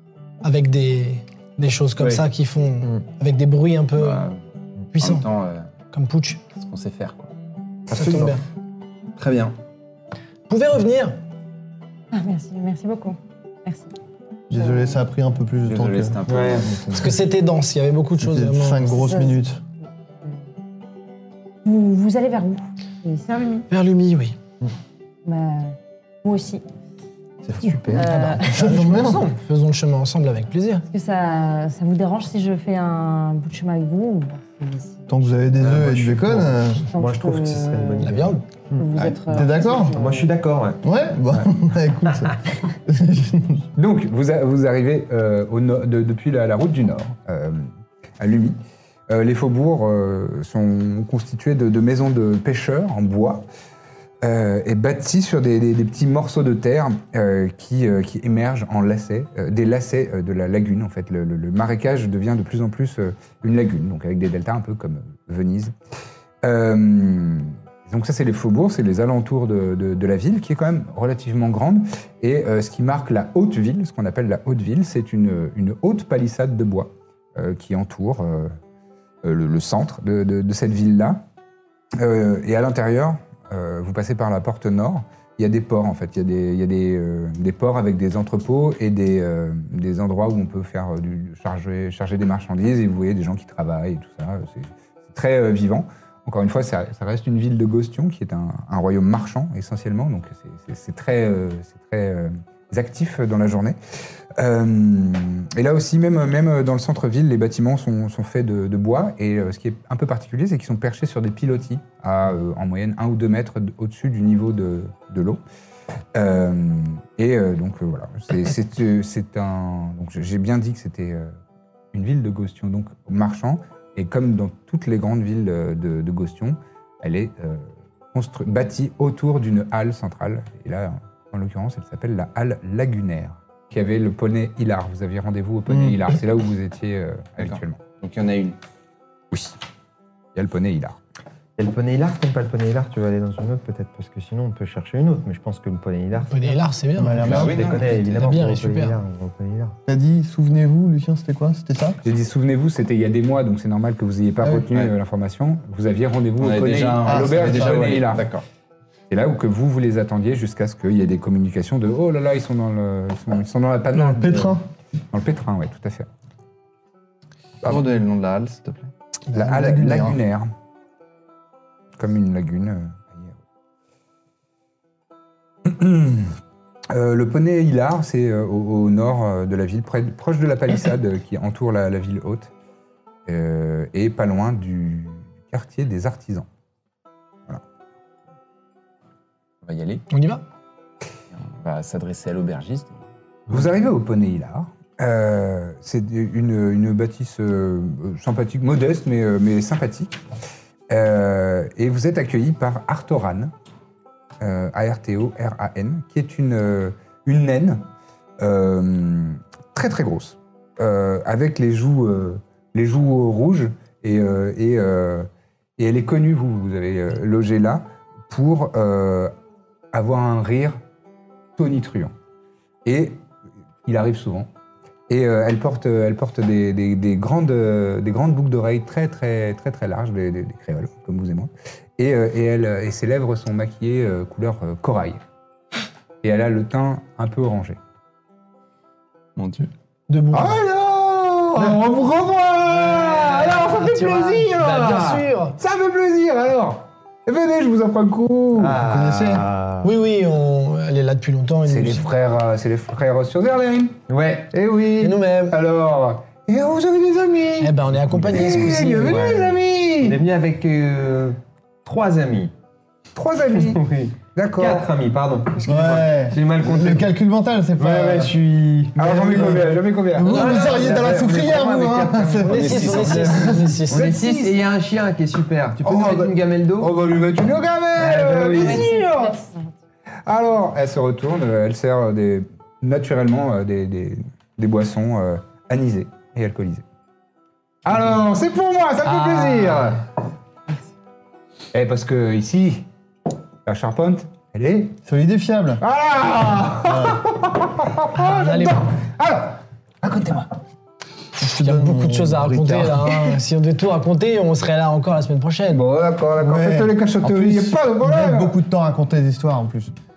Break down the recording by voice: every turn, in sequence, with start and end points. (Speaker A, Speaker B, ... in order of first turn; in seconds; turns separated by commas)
Speaker A: 0.4-4.2, Speaker B: 2.0-2.2, Speaker B: 3.9-4.4, Speaker A: 4.9-5.2, Speaker B: 5.0-5.7, Speaker A: 5.9-6.4, Speaker B: 6.5-7.3, Speaker A: 7.9-8.4, Speaker B: 9.2-9.6, Speaker A: 10.5-11.2, Speaker C: 12.1-13.9, Speaker D: 14.5-16.2, Speaker C: 14.5-15.0, Speaker B: 15.6-16.8, Speaker E: 16.3-17.1, Speaker A: 16.9-19.0, Speaker D: 18.2-19.6, Speaker C: 18.9-19.4, Speaker C: 21.6-23.6, Speaker A: 23.7-24.4, Speaker C: 25.2-26.6, Speaker D: 27.4-29.3, Speaker C: 27.9-28.7, Speaker A: 28.0-30.8, Speaker C: 30.9-35.1, Speaker D: 35.1-36.9, Speaker E: 35.6-38.9, Speaker C: 36.8-38.2, Speaker A: 38.0-38.4, Speaker C: 38.8-40.3, Speaker B: 39.0-39.3, Speaker D: 39.3-40.0, Speaker E: 39.9-40.8, Speaker D: 40.8-43.6, Speaker F: 43.7-47.7, Speaker F: 48.2-48.6, Speaker F: 49.1-53.4, Speaker F: 54.2-65.7, Speaker F: 66.4-78.5, Speaker F: 79.2-81.2, Speaker F: 82.0-103.8, Speaker F: 104.3-115.4, Speaker F: 116.1-121.3, Speaker F: 121.9-137.8, Speaker D: 135.7-136.0, Speaker B: 137.4-138.6, Speaker F: 139.3-139.6, Speaker F: 140.3-141.0, Speaker E: 141.6-146.6, Speaker A: 146.2-147.5, Speaker D: 147.0-147.7, Speaker B: 147.2-148.3, Speaker E: 147.2-149.8, Speaker A: 148.1-149.0, Speaker D: 149.8-152.0, Speaker F: 152.0-158.3, Speaker B: 156.4-158.4, Speaker D: 157.0-157.9, Speaker F: 159.1-166.1, Speaker D: 163.9-164.6, Speaker B: 167.6-168.9, Speaker D: 169.3-170.2, Speaker F: 169.3-170.5, Speaker F: 172.0-173.3, Speaker F: 175.6-176.4, Speaker F: 176.9-182.5, Speaker F: 183.2-186.4, Speaker B: 189.6-190.0, Speaker A: 190.1-190.4, Speaker B: 191.4-193.6, Speaker F: 193.5-200.2, Speaker F: 200.9-203.5, Speaker F: 204.4-207.8, Speaker F: 208.4-219.3, Speaker F: 219.9-220.8, Speaker F: 221.6-222.1, Speaker F: 222.8-223.2, Speaker F: 223.8-224.5, Speaker F: 225.1-235.2, Speaker F: 236.2-237.8, Speaker B: 239.3-239.7, Speaker A: 240.1-240.6, Speaker F: 240.3-248.8, Speaker A: 242.7-245.6, Speaker E: 248.5-249.9, Speaker D: 248.7-249.4, Speaker A: 249.8-252.1, Speaker F: 251.7-254.0, Speaker E: 254.1-254.5, Speaker F: 254.5-260.2, Speaker A: 255.0-255.6, Speaker A: 257.6-259.3, Speaker E: 258.4-262.5, Speaker F: 263.1-263.8, Speaker E: 263.5-267.1, Speaker F: 264.3-264.9, Speaker D: 265.6-268.3, Speaker E: 267.8-276.9, Speaker F: 269.0-271.2, Speaker D: 269.3-272.8, Speaker A: 272.4-274.1, Speaker B: 272.5-273.5, Speaker F: 273.9-274.6, Speaker F: 275.8-279.4, Speaker E: 278.0-278.9, Speaker C: 278.6-279.7, Speaker F: 280.2-286.8, Speaker F: 287.8-290.0, Speaker A: 289.0-290.0, Speaker F: 291.7-292.9, Speaker F: 293.6-295.0, Speaker D: 295.1-295.8, Speaker F: 295.8-300.5, Speaker D: 296.7-297.2, Speaker A: 298.1-298.8, Speaker A: 301.4-305.8, Speaker D: 301.4-303.2, Speaker F: 305.7-308.5, Speaker D: 306.4-309.9